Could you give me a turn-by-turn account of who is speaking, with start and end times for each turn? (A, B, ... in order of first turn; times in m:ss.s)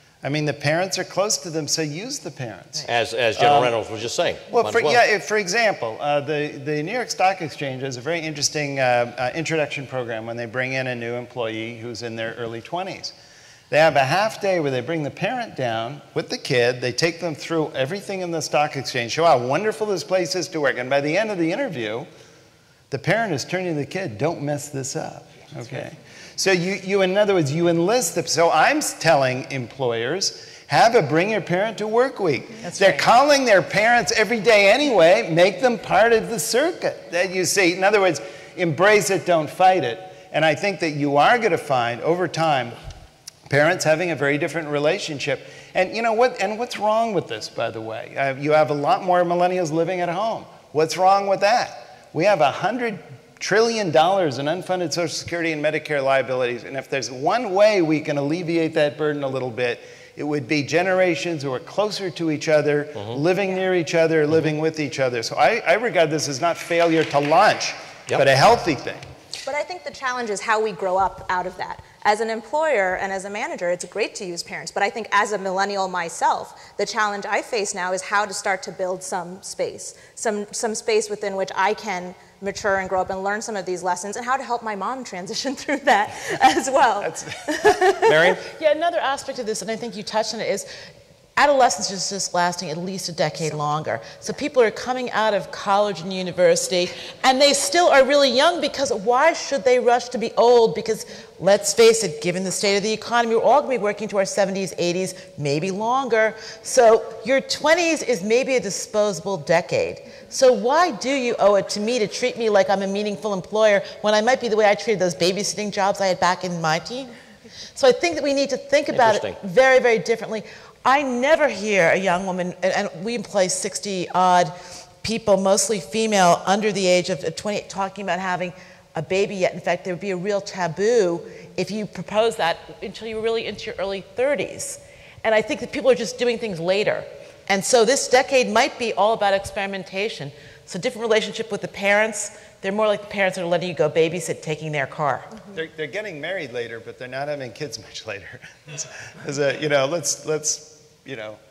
0:00.2-0:03.7 A
0:02.8-0:05.0 B
0:04.5-0:13.1 A
0:13.7-0:22.1 A
0:22.9-0:42.8 A
0:43.5-1:09.0 A
1:09.5-1:28.1 C
1:27.0-1:27.4 A
1:28.1-1:28.4 B
1:28.4-1:30.7 D
1:31.4-1:57.1 D
1:57.8-2:25.4 D
1:58.9-1:59.4 B
2:25.5-2:31.4 A